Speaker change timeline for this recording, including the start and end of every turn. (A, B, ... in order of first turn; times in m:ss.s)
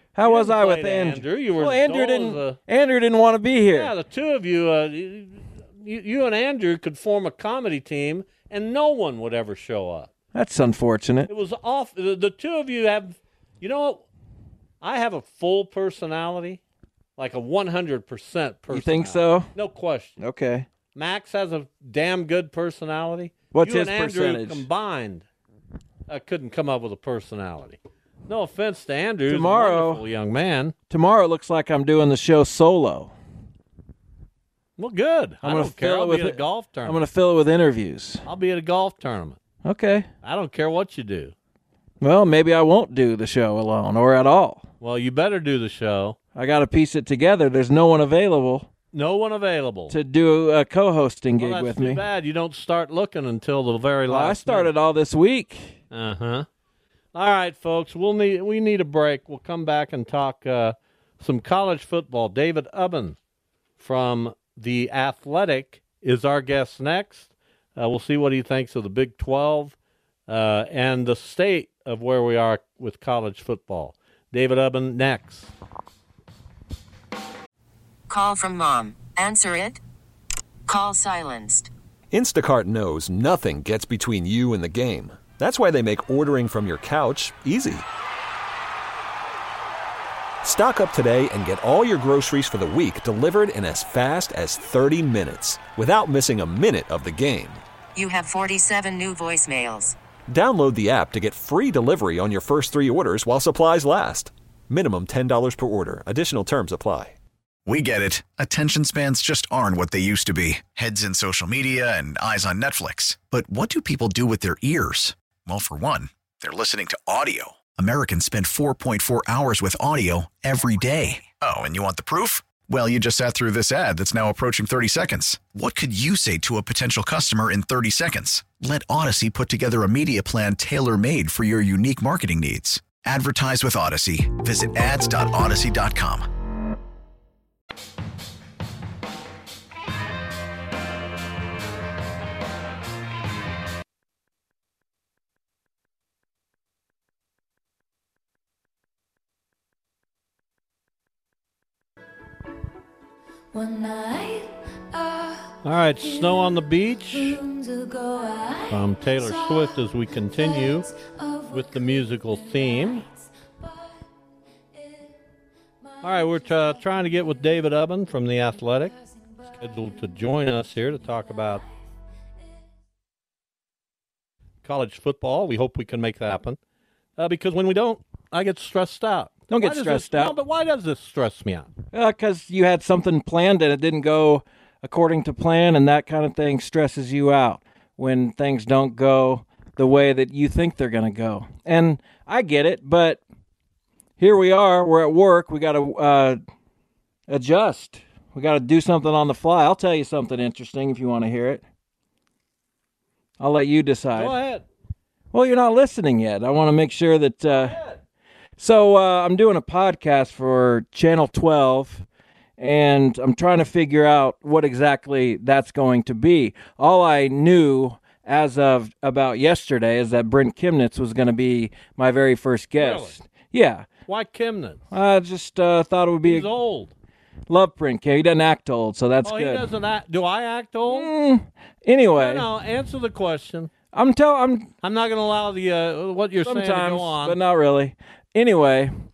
0:00.1-0:03.9 A
0:00.2-0:02.6 B
0:03.7-0:10.1 B
0:10.3-0:11.3 A
0:11.3-0:14.0 B
0:14.8-0:16.6 B
0:17.2-0:20.2 B
0:18.7-0:19.5 A
0:20.2-0:20.7 A
0:20.9-0:25.3 B
0:23.5-0:24.6 A
0:26.1-0:30.8 B
0:29.3-0:30.0 A
0:30.9-0:33.1 A
0:34.8-0:37.0 B
0:35.4-0:38.2 A
0:38.3-0:39.4 B
0:39.6-0:40.1 A
0:40.2-0:41.3 B
0:42.0-0:44.6 A
0:44.8-0:46.2 B
0:46.4-0:48.7 A
0:48.9-0:49.9 B
0:49.9-0:52.0 A
0:51.4-0:54.7 B
0:54.1-0:55.8 A
0:55.9-0:56.4 B
0:57.1-1:03.2 B
1:03.8-1:09.8 B
1:10.3-1:15.5 B
1:18.1-1:19.8 C
1:20.7-1:21.7 C
1:22.1-1:27.9 D
1:30.4-1:37.6 D
1:37.9-1:40.0 C
1:40.3-1:47.2 D
1:47.6-2:16.3 E
2:33.5-2:44.1 F
2:35.6-2:37.4 B
2:38.7-2:40.9 B
2:41.5-2:43.0 B
2:44.7-2:45.2 F
2:45.8-2:47.5 F
2:46.0-2:48.9 B
2:48.5-2:51.7 F
2:49.6-2:51.6 B
2:54.6-2:56.6 B
2:57.2-3:01.7 B
2:59.5-3:00.4 A
3:01.9-3:13.2 A
3:14.2-3:16.4 A
3:17.3-3:21.6 A
3:23.4-3:24.4 A
3:24.1-3:24.6 B
3:25.3-3:27.8 A
3:27.5-3:28.0 B
3:28.6-3:32.1 A
3:32.6-3:43.9 A
3:42.8-3:43.1 B
3:44.1-3:44.8 B
3:44.9-3:46.5 A
3:46.2-3:46.9 B
3:47.5-3:49.7 A
3:49.2-3:51.1 B
3:50.9-3:52.4 A
3:52.1-3:53.7 B
3:53.9-3:54.7 A
3:54.8-3:57.4 B
3:56.4-3:58.9 A